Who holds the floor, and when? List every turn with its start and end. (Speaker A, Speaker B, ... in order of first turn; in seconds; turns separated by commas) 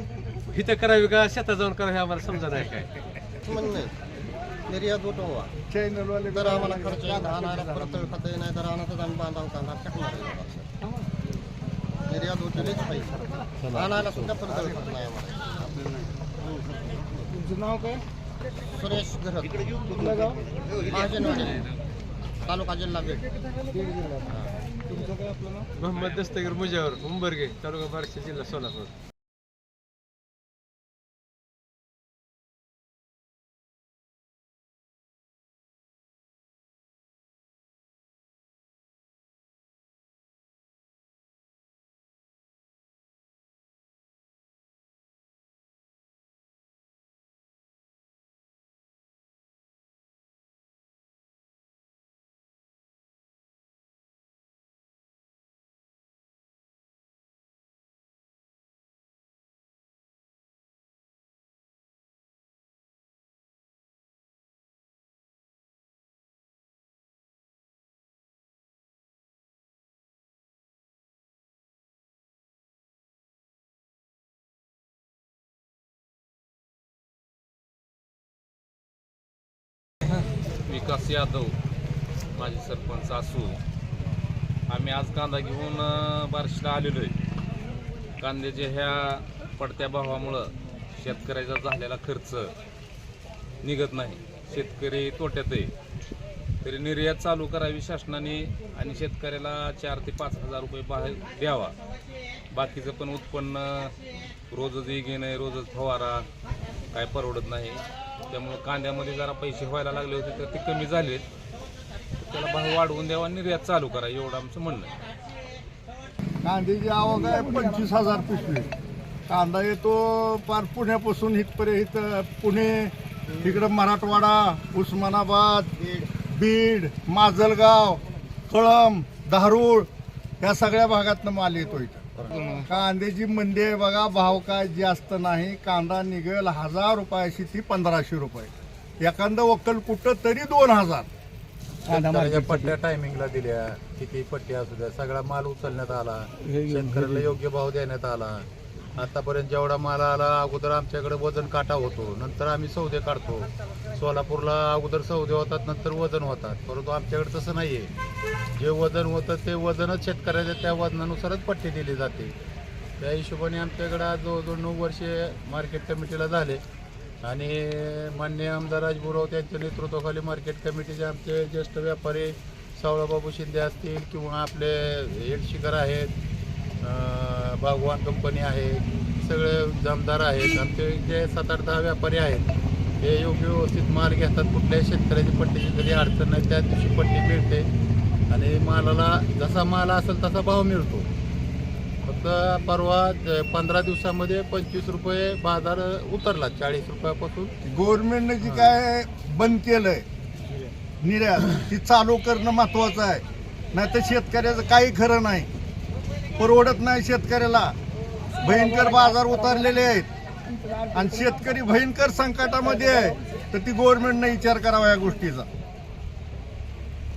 Speaker A: 0.5-2.9, Speaker B: 3.5-3.9, Speaker B: 4.7-5.5, Speaker C: 5.7-7.6, Speaker B: 6.3-10.7, Speaker B: 12.1-15.6, Speaker B: 18.7-20.1, Speaker B: 20.8-21.7, Speaker B: 22.4-23.2, Speaker A: 25.8-28.9, Speaker D: 80.7-81.5, Speaker D: 82.3-83.6, Speaker D: 84.7-87.1, Speaker D: 88.2-92.5, Speaker D: 93.6-95.7, Speaker D: 96.6-101.7, Speaker D: 102.5-103.9, Speaker D: 104.5-106.3, Speaker D: 106.9-111.2, Speaker D: 112.2-114.9, Speaker C: 116.4-118.7, Speaker C: 119.3-129.9, Speaker C: 130.4-141.1, Speaker E: 141.9-157.9, Speaker E: 158.6-162.3, Speaker E: 163.0-166.6, Speaker E: 167.2-176.1, Speaker E: 176.8-182.5, Speaker E: 183.0-187.7, Speaker E: 188.3-191.1, Speaker E: 192.0-197.5, Speaker C: 197.6-200.0, Speaker C: 201.0-205.5, Speaker C: 206.4-207.8, Speaker C: 208.4-210.1, Speaker C: 210.8-215.5